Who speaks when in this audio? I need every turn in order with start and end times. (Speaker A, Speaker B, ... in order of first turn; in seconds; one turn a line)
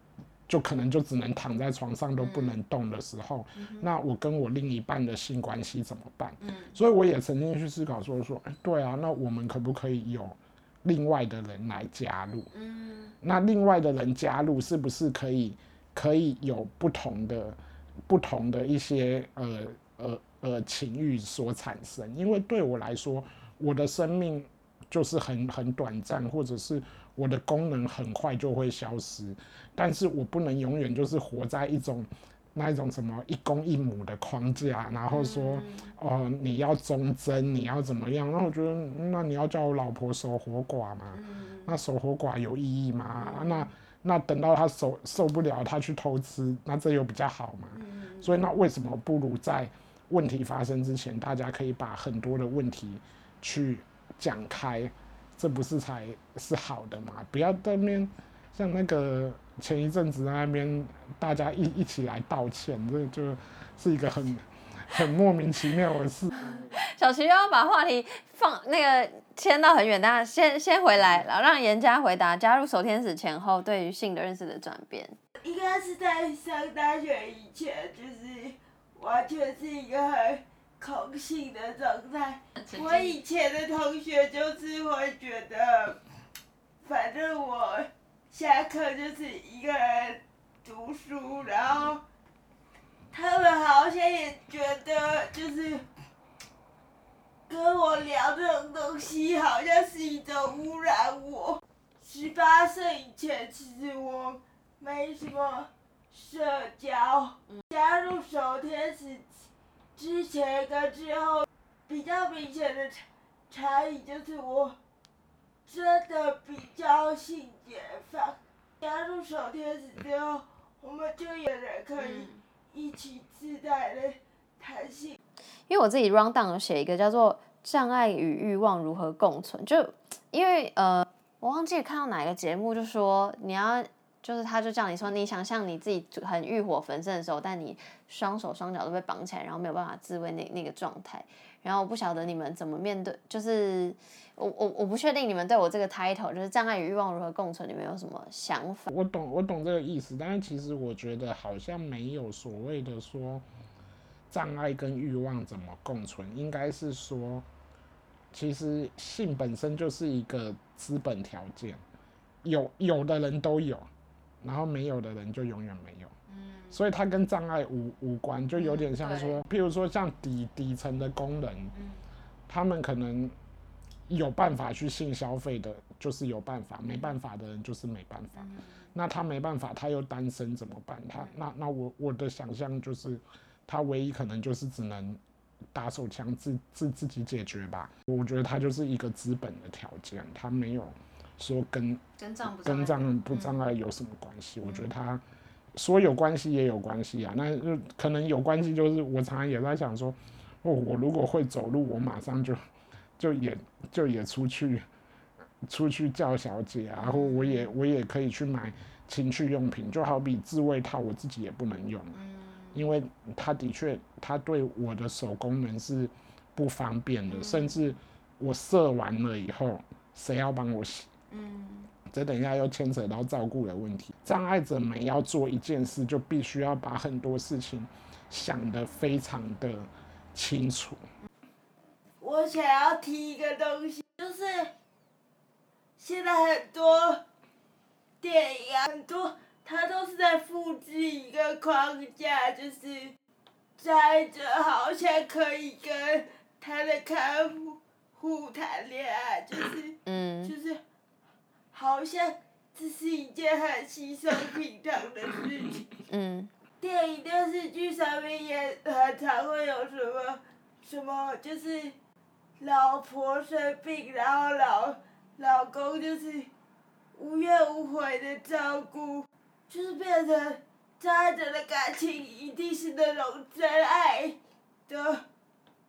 Speaker A: 0.5-12.5
Speaker B: 2.2-2.5
Speaker B: 3.5-3.9
Speaker B: 6.4-6.8
Speaker B: 12.5-13.1
Speaker A: 13.2-66.7
Speaker B: 35.1-35.9
Speaker B: 41.1-41.8
Speaker B: 43.2-43.7
Speaker B: 47.7-48.4
Speaker B: 66.5-75.2
Speaker C: 75.4-86.0
Speaker B: 82.6-83.1
Speaker C: 86.8-92.0
Speaker C: 93.1-95.8
Speaker C: 97.5-109.3
Speaker C: 110.0-114.8
Speaker C: 115.7-125.2
Speaker B: 122.0-122.4
Speaker B: 125.7-148.9
Speaker A: 148.9-153.4
Speaker A: 154.3-157.4
Speaker A: 158.3-161.8
Speaker A: 162.4-163.9
Speaker A: 164.4-166.1
Speaker B: 166.3-166.8
Speaker A: 166.7-171.7
Speaker B: 168.6-169.4
Speaker B: 171.7-172.0
Speaker A: 172.5-173.3
Speaker A: 174.1-185.2
Speaker B: 178.3-178.8
Speaker A: 185.7-195.2
Speaker B: 192.2-193.6
Speaker A: 195.7-202.6
Speaker A: 203.2-204.9
Speaker A: 205.7-212.2
Speaker B: 207.0-207.7
Speaker B: 212.1-212.9
Speaker A: 212.7-221.1
Speaker B: 217.3-217.8
Speaker B: 221.3-221.9
Speaker A: 222.1-231.0
Speaker C: 232.2-234.7
Speaker C: 236.0-237.2
Speaker C: 238.2-243.1
Speaker C: 243.8-250.8
Speaker B: 250.1-250.5
Speaker C: 251.7-255.8
Speaker B: 256.1-256.5
Speaker C: 256.8-261.9
Speaker C: 262.6-266.5
Speaker C: 267.1-274.4
Speaker C: 274.9-275.2